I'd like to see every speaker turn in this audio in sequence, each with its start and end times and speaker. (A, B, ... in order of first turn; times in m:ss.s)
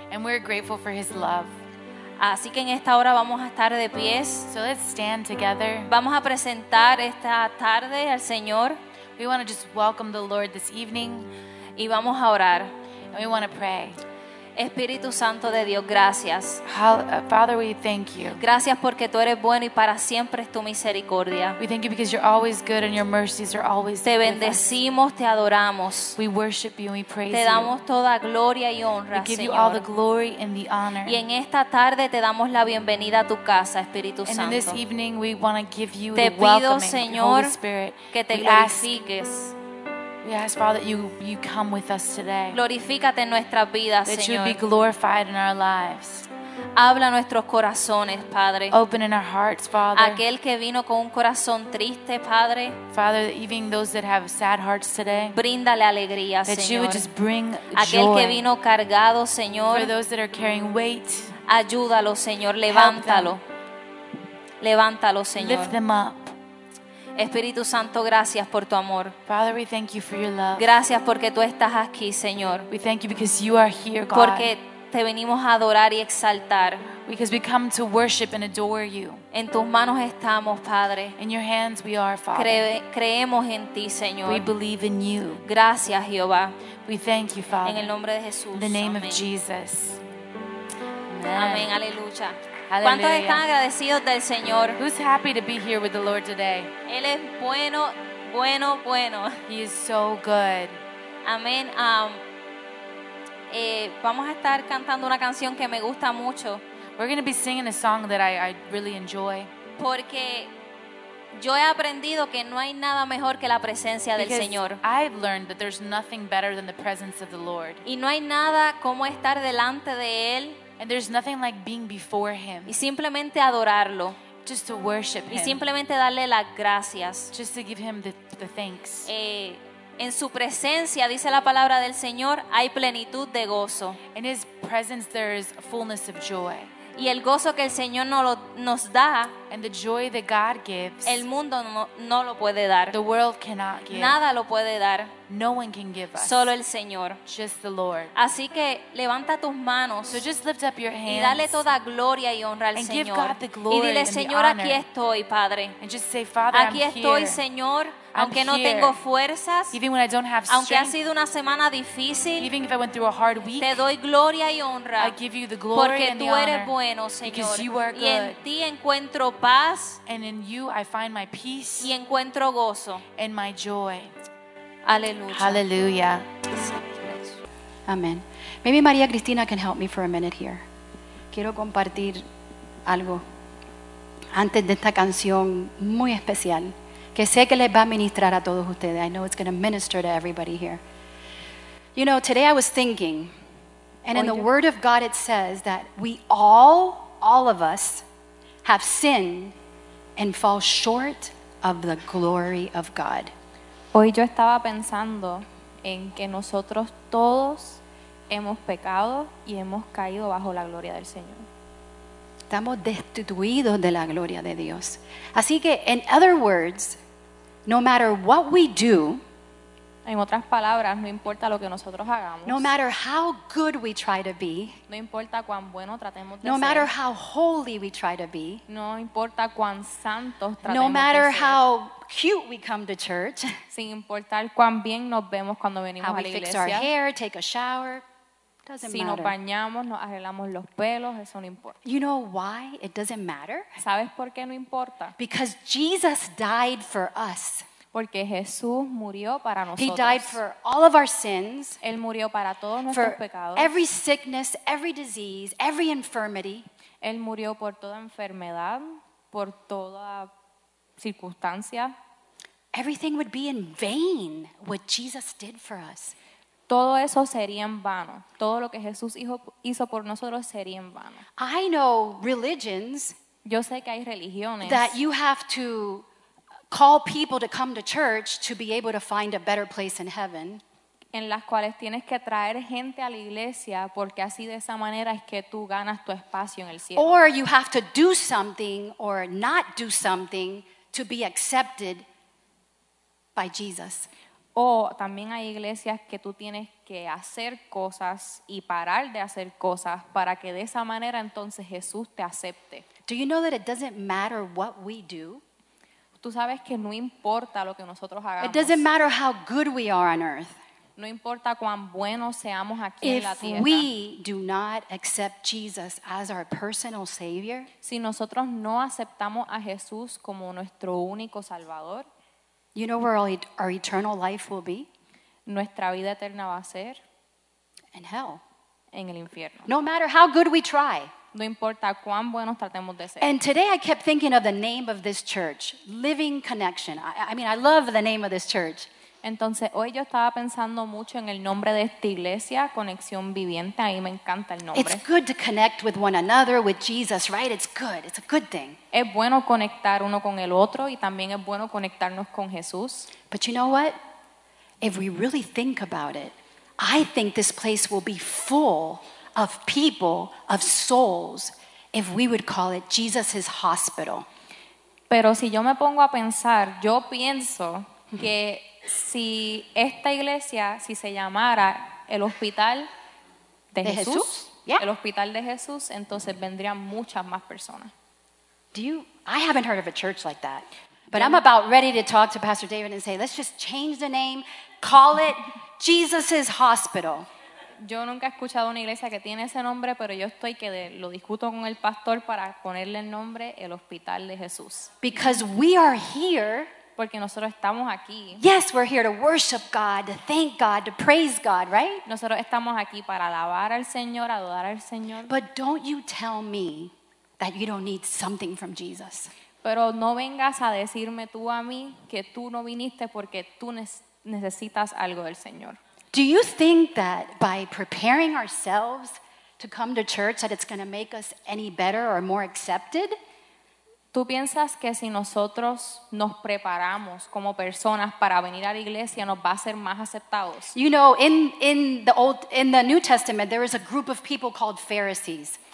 0:00.1-0:01.6 A
0:02.2-0:04.5 B
0:04.5-0:05.9 A
0:05.9-0:08.8 B
0:09.2-0:11.3 A
0:11.8-0:12.7 B
0:13.1-0:14.0 A
0:14.6-0:16.6 B
0:16.7-0:18.4 A
0:18.4-0:21.6 B
0:21.6-0:24.7 A
0:24.0-0:26.2 B
0:26.2-0:27.8 A
0:27.3-0:29.9 B
0:29.1-0:31.2 A
0:31.0-0:34.8 B
0:34.2-0:38.9 A
0:36.1-0:37.5 B
0:38.1-0:39.5 B
0:40.2-0:42.6 A
0:42.5-0:44.6 B
0:44.1-0:46.3 A
0:46.8-0:48.8 B
0:48.7-0:50.2 A
0:50.0-0:52.8 B
0:52.9-0:55.4 A
0:55.3-0:57.1 B
0:56.4-0:58.5 A
0:57.7-0:59.9 B
0:59.7-1:01.3 A
1:01.5-1:03.4 B
1:02.7-1:03.4 A
1:04.6-1:05.8 B
1:05.3-1:06.3 A
1:07.2-1:09.1 B
1:09.3-1:10.7 A
1:10.6-1:12.7 B
1:12.7-1:14.5 A
1:14.1-1:16.9 B
1:17.0-1:19.2 A
1:19.3-1:21.2 B
1:21.2-1:22.7 A
1:22.3-1:24.5 B
1:24.2-1:25.5 A
1:25.4-1:26.6 B
1:26.8-1:28.0 A
1:27.6-1:29.3 B
1:28.5-1:30.0 A
1:31.1-1:31.8 A
1:31.4-1:34.8 B
1:32.7-1:33.5 A
1:34.8-1:36.7 A
1:36.9-1:39.3 B
1:39.5-1:40.8 A
1:41.2-1:42.2 B
1:43.5-1:46.6 B
1:47.0-1:49.5 A
1:49.8-1:50.5 B
1:51.4-1:54.8 B
1:54.2-1:57.8 A
1:57.8-2:00.6 B
2:00.8-2:02.8 A
2:02.7-2:04.2 B
2:04.4-2:05.6 A
2:05.3-2:07.3 B
2:07.3-2:09.1 A
2:09.1-2:14.0 B
2:14.2-2:16.7 A
2:17.0-2:19.3 B
2:19.5-2:21.3 A
2:21.0-2:23.0 B
2:22.9-2:24.2 A
2:23.9-2:25.1 B
2:25.3-2:26.6 A
2:26.2-2:27.2 B
2:27.3-2:28.2 A
2:28.2-2:30.3 B
2:30.1-2:31.7 A
2:31.1-2:35.8 B
2:32.7-2:34.9 A
2:35.8-2:37.4 A
2:36.5-2:39.8 B
2:38.1-2:39.0 A
2:39.7-2:41.0 A
2:40.5-2:42.5 B
2:42.4-2:43.9 A
2:43.6-2:45.2 B
2:45.0-2:48.4 A
2:45.7-2:50.0 B
2:50.1-2:51.9 A
2:51.8-2:53.0 B
2:53.2-2:54.1 A
2:54.9-2:55.7 B
2:55.3-2:56.4 A
2:57.0-2:57.4 B
2:57.9-3:00.6 C
3:01.3-3:02.2 C
3:02.9-3:03.2 C
3:04.3-3:10.8 C
3:12.0-3:13.3 C
3:14.0-3:18.0 C
3:14.1-3:14.5 D
3:18.6-3:19.6 C
3:20.2-3:23.3 C
3:23.9-3:31.5 D
3:32.5-3:37.0 C
3:37.7-3:39.2 C
3:40.1-3:42.7 D
3:42.4-3:44.8 C
3:44.9-3:46.9 D
3:46.4-3:48.6 C
3:48.7-3:51.6 D
3:50.6-3:53.6 C
3:53.7-3:56.9 D
3:56.0-3:58.0 C
3:58.7-3:59.3 C
3:58.8-4:01.8 D
4:01.8-4:03.7 C
4:03.8-4:05.2 D
4:05.2-4:07.7 C
4:07.9-4:10.4 D
4:09.8-4:11.8 C
4:11.8-4:13.7 D
4:12.9-4:16.7 C
4:17.0-4:20.3 D
4:21.0-4:22.0 D
4:22.7-4:26.2 C
4:26.7-4:31.2 D
4:31.4-4:33.2 C
4:33.4-4:35.0 D
4:34.6-4:36.1 C
4:36.7-4:40.6 C
4:41.1-4:47.2 D
4:47.0-4:52.0 C
4:53.4-4:54.1 C
4:54.6-5:02.8 D
5:03.1-5:05.4 C
5:06.2-5:08.8 D
5:08.4-5:10.6 C
5:11.0-5:13.9 D
5:13.0-5:17.7 C
5:17.8-5:22.1 D
5:22.8-5:24.9 C
5:25.5-5:27.0 D
5:27.9-5:28.4 C
5:28.9-5:29.7 D
5:29.7-5:31.1 C
5:31.3-5:33.4 D
5:33.2-5:38.9 C
5:39.2-5:45.0 D
5:44.7-5:48.8 C
5:48.9-5:53.1 D
5:53.3-5:54.0 C
5:54.8-6:04.3 C
6:05.1-6:12.9 D
6:13.7-6:17.9 D
6:13.8-6:14.8 C
6:18.7-6:27.3 C
6:21.1-6:21.4 D
6:27.8-6:35.3 D
6:35.0-6:36.7 C
6:37.0-6:38.4 D
6:38.4-6:42.0 C
6:42.1-6:45.3 D
6:45.3-6:49.3 C
6:49.6-6:55.8 D
6:56.1-7:03.2 C
7:04.1-7:10.8 D
7:10.7-7:15.6 C